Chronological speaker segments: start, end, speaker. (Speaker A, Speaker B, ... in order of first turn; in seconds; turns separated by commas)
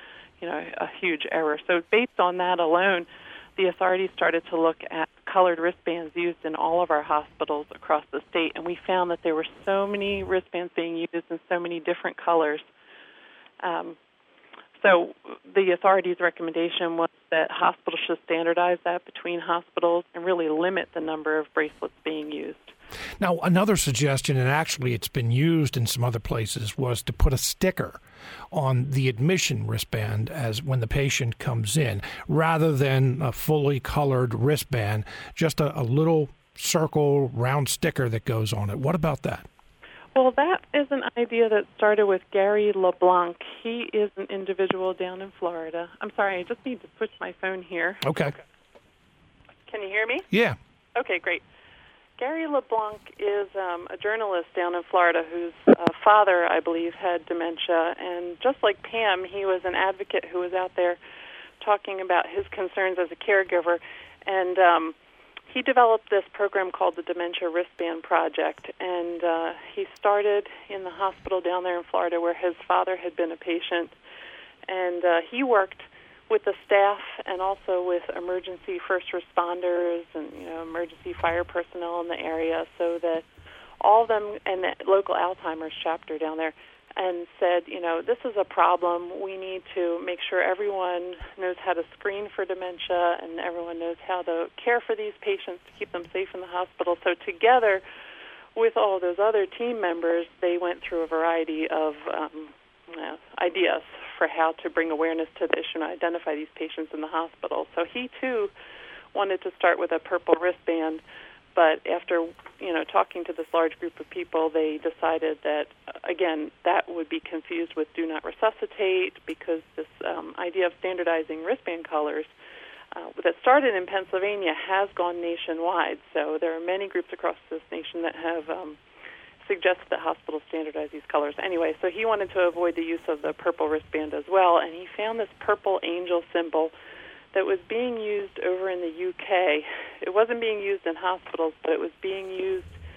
Speaker A: 0.4-12.6, Speaker A: 13.6-14.0, Speaker A: 14.8-22.7, Speaker B: 23.2-28.0, Speaker B: 28.5-39.5, Speaker A: 40.1-48.0, Speaker B: 48.0-48.4, Speaker A: 49.7-50.3, Speaker B: 50.3-50.6, Speaker A: 51.0-51.4, Speaker A: 52.2-61.0, Speaker A: 61.6-64.9, Speaker A: 65.5-73.9, Speaker A: 74.7-83.2, Speaker A: 83.8-97.8, Speaker A: 98.6-108.5, Speaker A: 109.1-111.0, Speaker A: 111.5-122.3, Speaker A: 122.9-128.8, Speaker A: 129.4-136.7, Speaker A: 137.3-142.8